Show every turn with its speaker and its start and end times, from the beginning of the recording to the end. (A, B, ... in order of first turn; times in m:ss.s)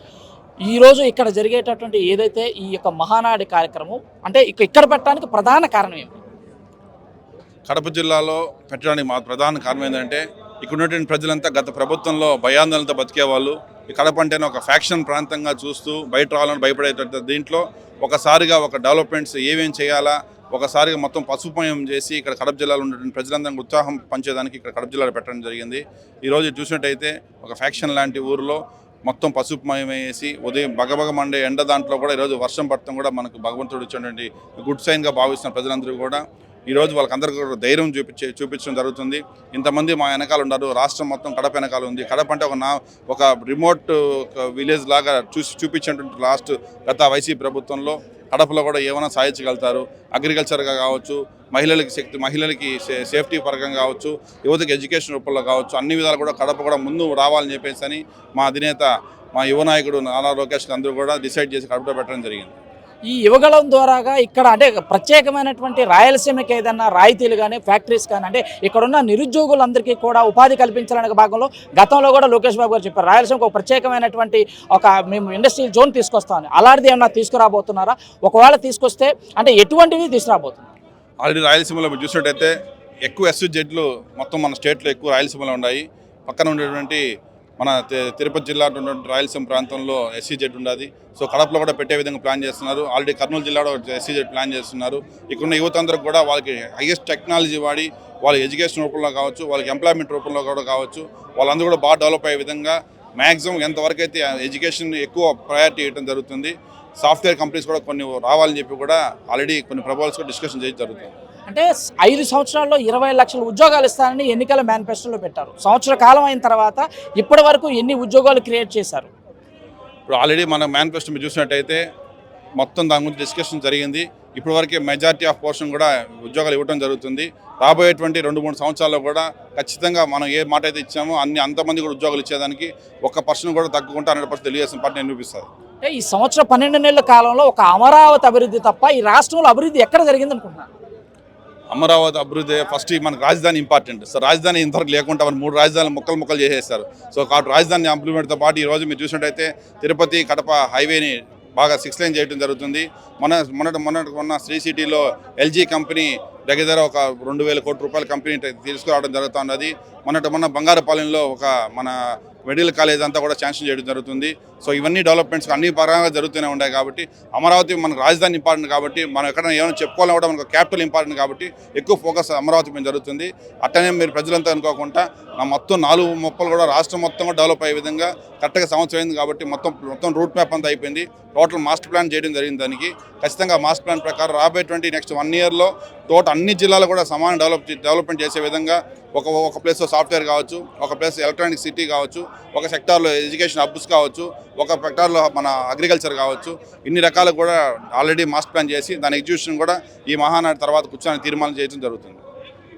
0:00.6-0:06.1 A
0:07.7-1:02.5 B
1:03.0-1:20.7 A
1:21.2-1:22.5 B
1:23.0-1:27.0 B
1:27.6-1:51.1 B
1:51.5-1:59.1 A
2:00.1-2:01.8 B
2:02.6-2:15.5 B
2:15.8-2:20.7 A
2:21.7-3:22.2 B